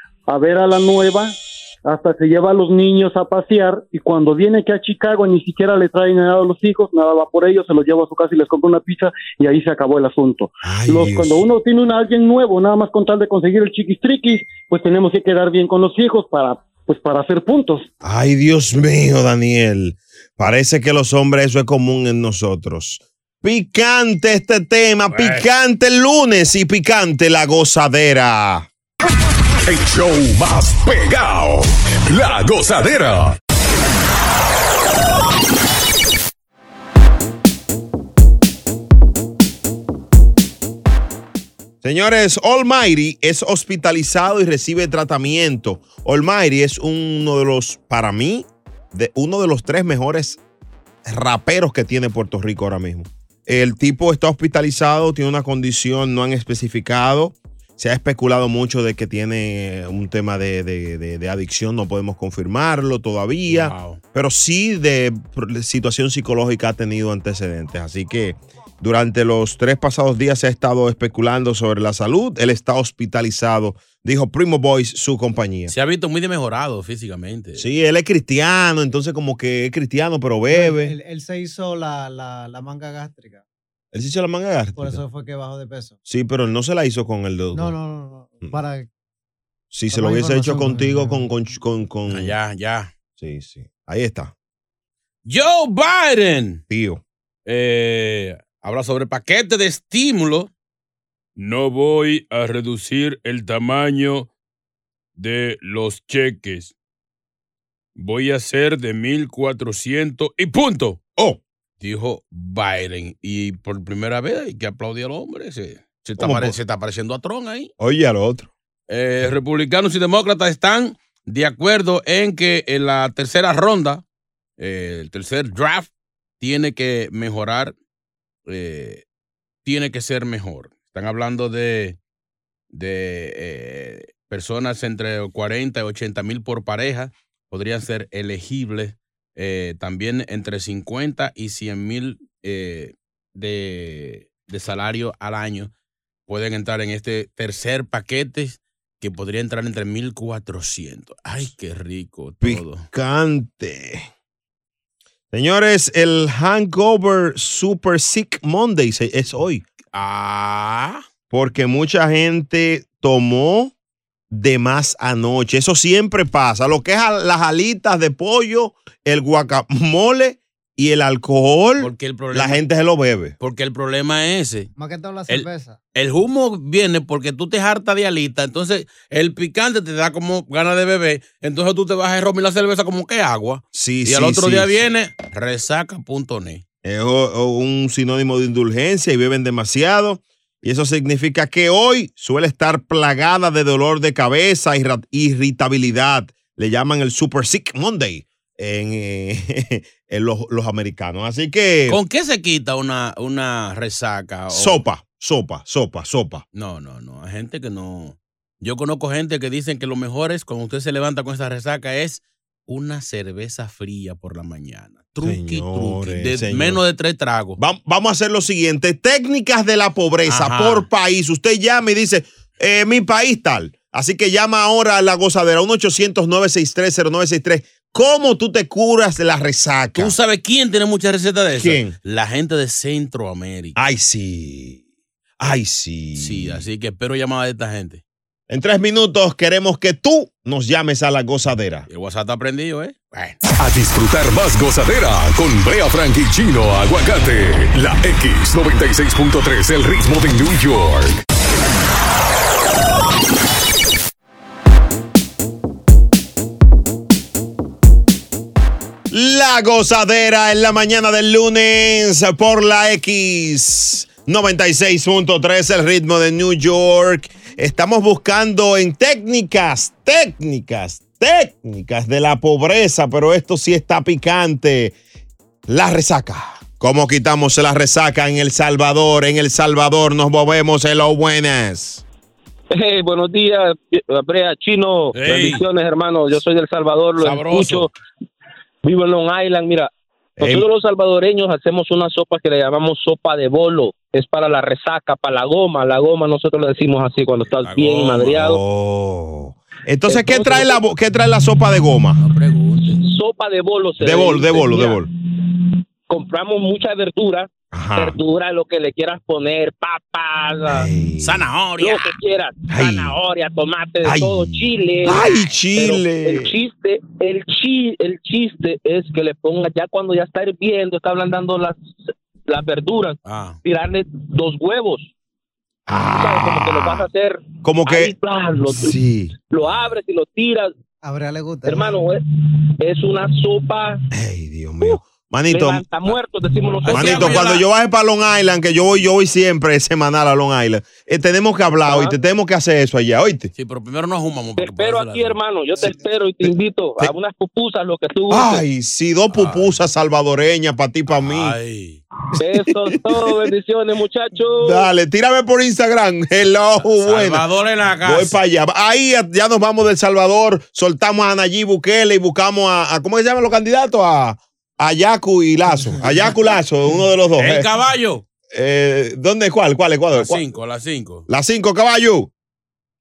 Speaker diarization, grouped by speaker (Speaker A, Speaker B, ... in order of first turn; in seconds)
Speaker A: 0.3-17.9
Speaker B: 10.6-11.4, 18.0-28.7, 41.8-50.4, 51.0-75.7, 77.6-80.9, 83.9-85.0, 86.1-87.8, 89.7-92.4, 93.2-94.3, 96.7-97.0, 116.2-116.6, 117.8-118.5, 152.4-154.1, 155.3-159.6, 161.3-163.7, 164.3-173.3, 183.7-184.8, 186.8-202.0, 204.5-206.4, 215.2-216.8, 217.6-230.1, 231.5-231.9, 233.8-234.8, 235.4-236.6, 238.5-241.9, 259.1-275.0, 275.7-282.0, 290.4-290.7, 298.4-302.2, 304.0-305.1, 307.7-308.2, 310.7-311.5, 312.7-313.2, 314.0-316.6, 325.9-327.1, 327.6-328.1, 328.7-329.4, 334.1-336.2, 336.9-343.5, 348.3-351.6, 352.9-353.5, 354.6-357.4, 358.0-367.7, 368.5-370.4, 371.3-372.3
Speaker C: 25.1-25.5, 63.5-64.0, 75.7-77.7, 92.1-92.9, 95.3-96.6, 97.5-100.5, 101.4-104.3, 105.2-106.7, 108.0-111.0, 111.8-117.7, 118.9-124.0, 124.6-127.8, 128.5-129.0, 129.7-132.0, 132.7-145.7, 146.3-152.8, 159.9-161.0, 171.8-172.6, 173.4-174.7, 175.3-186.6, 201.9-204.8, 206.6-217.6, 220.3-220.9, 230.0-233.8, 236.2-238.0, 241.9-243.4, 285.1-285.6, 287.2-287.9, 297.6-298.4, 302.2-303.0, 311.2-312.2, 323.2-323.6, 336.8-337.6, 343.6-345.4, 349.3-349.7, 351.1-352.0, 357.0-358.4, 367.4-368.2, 370.1-371.3
Speaker D: 29.6-33.4, 243.6-251.2
Speaker E: 80.5-83.4, 84.8-86.0, 87.5-88.9, 89.9-91.3, 174.8-175.8, 331.0-331.9
Speaker F: 282.7-287.9, 288.8-298.6, 300.1-300.8, 303.0-305.1, 306.1-310.9, 311.8-321.8, 322.5-325.1, 326.0-329.0, 329.5-330.7, 331.7-332.2, 332.8-334.0, 334.8-337.5, 341.9-342.1, 344.6-348.6, 352.4-354.9